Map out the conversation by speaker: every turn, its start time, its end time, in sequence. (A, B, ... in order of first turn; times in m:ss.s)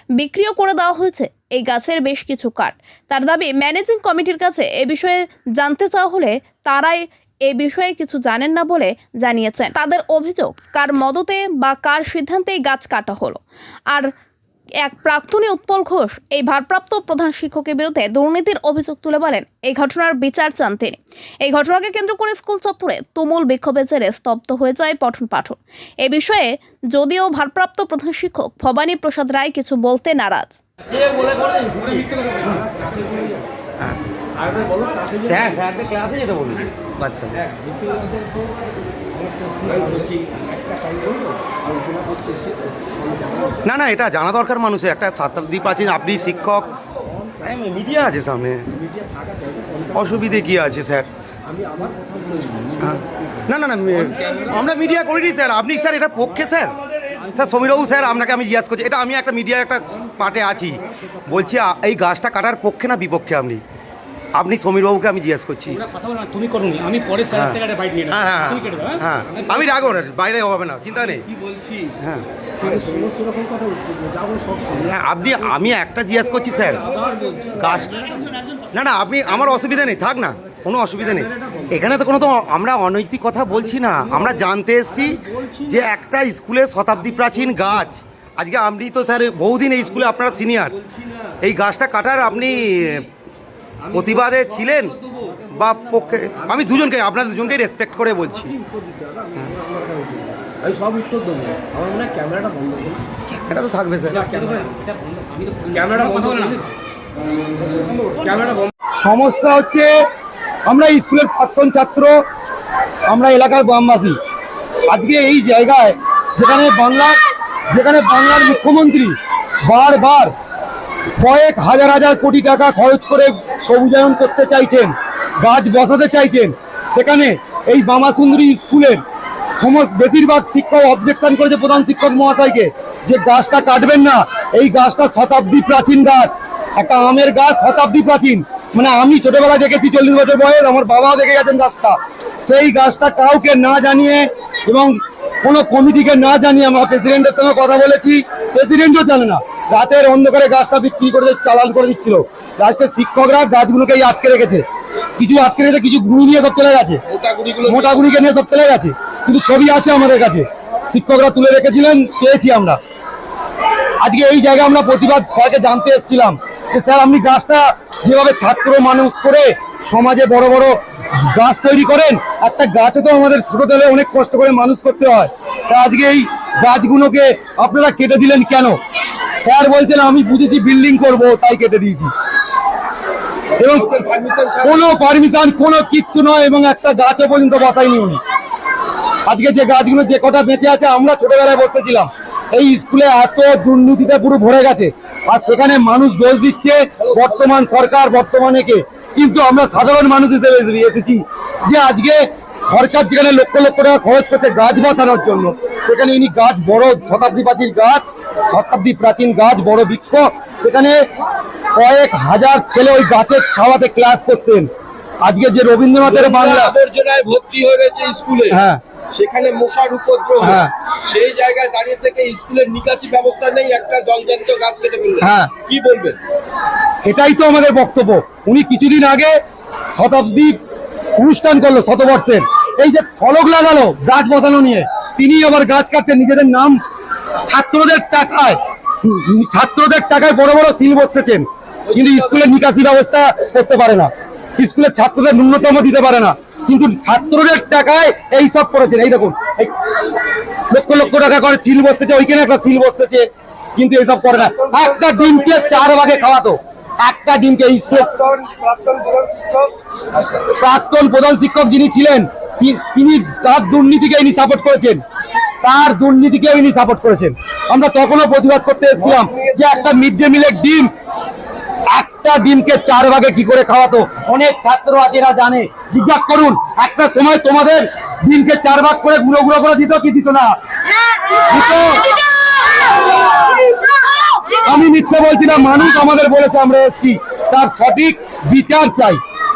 0:00.2-0:13.4 A
0:14.8-0:30.6 A
0:31.2-0:33.5 B
0:34.4-0:35.6 B
0:35.8-0:37.4 C
0:37.4-0:38.5 B
0:39.1-0:43.6 B
0:43.8-0:46.5 C
0:47.7-0:48.5 C
0:48.2-0:48.6 D
0:48.7-0:50.3 B
0:50.2-0:51.0 C
0:50.6-0:51.0 D
0:51.4-0:53.0 B
0:53.5-0:56.7 C
0:57.3-1:00.7 C
1:01.3-1:03.6 C
1:04.4-1:05.8 C
1:05.8-1:09.5 E
1:08.2-1:08.5 C
1:08.3-1:10.3 D
1:09.7-1:11.1 C
1:11.5-1:11.7 B
1:12.6-1:14.9 B
1:15.0-1:16.7 C
1:15.1-1:16.6 D
1:16.9-1:18.0 B
1:18.7-1:21.1 C
1:20.7-1:21.0 D
1:21.9-1:22.4 D
1:22.1-1:23.6 C
1:23.6-1:24.9 D
1:24.2-1:25.2 C
1:25.7-1:28.0 D
1:26.4-1:27.7 C
1:28.4-1:30.5 C
1:31.4-1:32.7 C
1:32.0-1:32.4 D
1:34.0-1:34.8 D
1:34.2-1:34.6 B
1:35.6-1:38.5 D
1:37.3-1:38.4 C
1:38.4-1:43.1 B
1:43.5-1:44.1 C
1:43.5-1:43.9 D
1:44.1-1:45.0 B
1:44.3-1:46.6 E
1:45.6-1:46.8 B
1:47.6-1:48.7 B
1:49.0-1:49.9 D
1:50.7-1:52.1 D
1:53.1-1:54.1 D
1:54.9-1:57.2 D
1:57.7-1:59.1 D
1:59.7-2:00.3 D
2:01.2-2:09.0 D
2:09.6-2:34.6 D
2:35.2-2:37.0 D
2:37.1-2:38.0 F
2:37.6-2:42.8 D
2:44.0-2:58.8 D
2:59.4-3:02.1 D
3:03.6-3:04.0 D
3:03.7-3:04.8 F
3:04.6-3:08.2 D
3:09.3-3:31.0 D
3:17.0-3:17.3 F
3:31.8-3:34.7 D
3:35.2-3:36.7 D
3:36.0-3:38.6 F
3:38.5-3:38.8 D
3:39.1-3:46.2 F
3:40.4-3:40.7 D
3:45.2-3:45.5 D
3:47.0-3:49.4 D
3:49.9-3:50.6 D
3:51.2-3:56.8 D
3:57.4-4:09.7 D
4:01.9-4:02.4 F
4:10.7-4:18.1 D
4:14.6-4:16.0 F
4:18.0-4:20.3 F
4:20.6-4:25.0 D
4:25.6-4:30.9 D
4:29.0-4:29.8 F
4:31.9-4:40.5 D
4:41.4-4:42.2 D
4:44.5-4:49.2 D